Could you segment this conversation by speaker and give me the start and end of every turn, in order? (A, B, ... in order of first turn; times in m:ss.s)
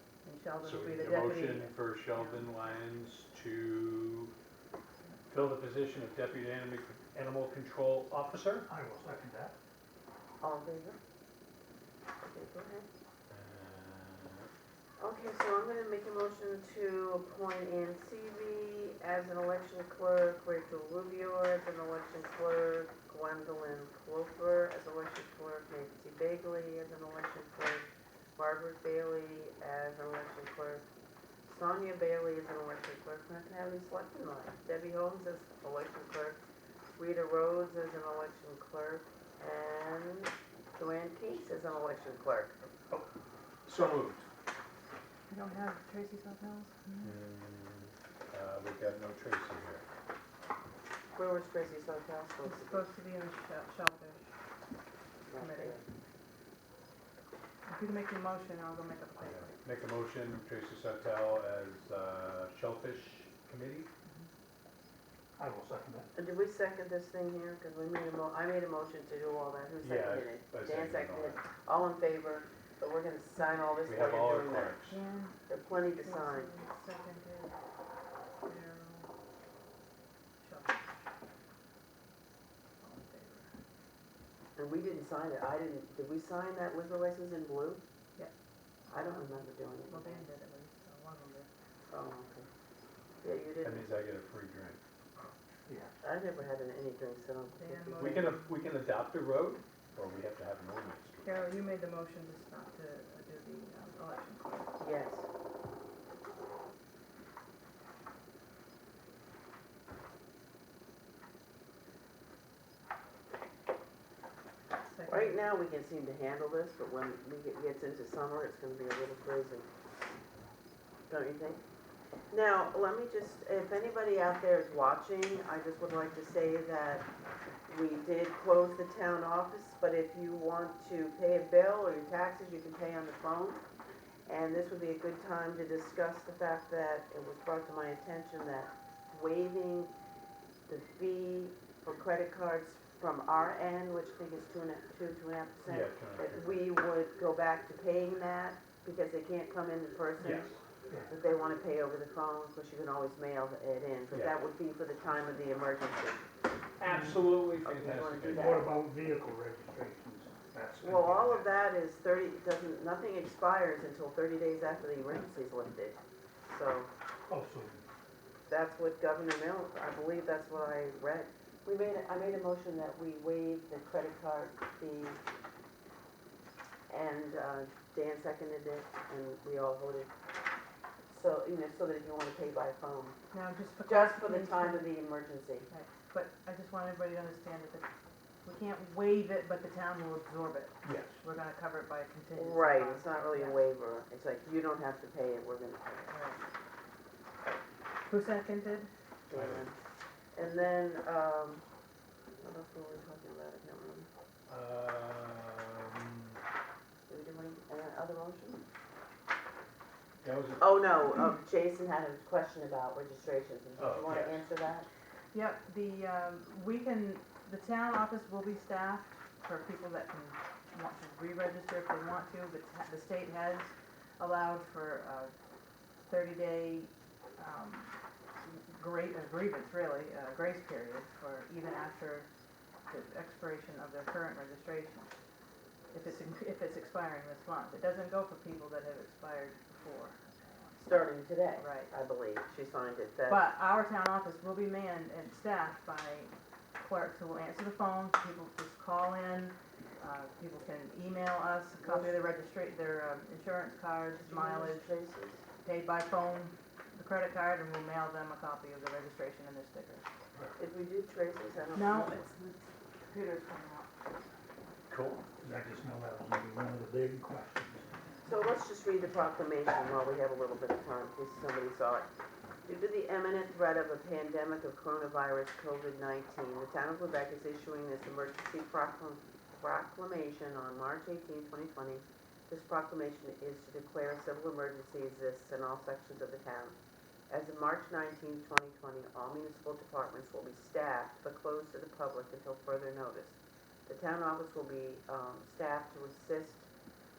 0:00.2-0:02.5 A
0:00.6-0:04.3 B
0:05.3-0:08.7 B
0:08.6-0:09.6 C
0:10.4-0:11.0 D
0:12.2-0:12.9 D
0:13.3-0:14.5 B
0:15.0-0:27.8 D
0:28.4-0:30.8 D
0:31.4-0:36.4 D
0:37.0-0:42.6 D
0:43.6-0:44.2 B
0:45.3-0:47.2 A
0:47.0-0:49.8 B
0:51.2-0:52.9 D
0:52.4-0:54.3 A
0:55.3-0:55.8 D
0:55.4-0:55.8 A
0:57.7-0:59.6 A
0:59.2-1:03.9 B
1:05.4-1:06.1 C
1:06.1-1:14.8 D
1:09.8-1:11.4 B
1:13.8-1:15.0 B
1:14.9-1:15.4 A
1:15.5-1:16.5 D
1:15.9-1:17.5 A
1:18.4-1:19.1 A
1:20.4-1:20.8 A
1:22.8-1:23.5 A
1:24.6-1:27.8 D
1:28.9-1:29.4 A
1:28.9-1:30.2 D
1:29.9-1:31.5 A
1:31.9-1:32.5 D
1:33.2-1:34.0 D
1:33.6-1:34.8 B
1:35.6-1:35.9 C
1:36.0-1:38.3 D
1:37.6-1:38.5 A
1:38.0-1:41.5 B
1:41.2-1:44.8 A
1:44.8-1:45.2 D
1:54.8-1:55.5 A
1:55.0-1:59.7 D
2:01.1-2:01.6 D
2:02.3-2:07.1 D
2:07.7-2:13.6 D
2:14.2-2:19.9 D
2:20.7-2:36.3 D
2:25.7-2:26.6 B
2:30.2-2:30.4 A
2:30.2-2:30.5 B
2:30.9-2:31.1 C
2:34.1-2:34.4 B
2:36.8-2:38.6 B
2:36.9-2:37.2 C
2:37.6-2:38.7 D
2:38.3-2:41.5 C
2:40.8-2:46.9 D
2:47.3-2:47.8 C
2:48.5-2:55.2 D
2:56.9-3:00.1 D
3:01.1-3:03.2 D
3:03.3-3:05.0 A
3:03.8-3:05.7 D
3:05.7-3:07.8 A
3:08.4-3:13.6 A
3:10.8-3:11.1 B
3:12.4-3:16.1 D
3:16.1-3:16.4 A
3:18.0-3:18.9 A
3:19.3-3:19.8 D
3:19.3-3:19.7 B
3:20.3-3:21.6 D
3:22.4-3:24.1 D
3:24.5-3:26.4 B
3:27.1-3:28.6 D
3:30.2-3:30.8 B
3:30.6-3:34.9 D
3:33.8-3:34.4 B
3:35.3-3:45.3 A
3:46.0-3:52.3 A
3:52.9-3:55.1 A
3:55.9-4:01.9 A
4:00.8-4:03.4 D
4:03.3-4:14.9 A
4:11.8-4:12.3 D
4:14.2-4:15.4 D
4:15.6-4:20.0 A
4:20.6-4:22.4 D
4:21.7-4:23.9 A
4:24.9-4:25.3 B
4:25.4-4:27.9 C
4:28.2-4:32.1 D
4:32.6-4:46.8 D
4:47.3-4:56.7 D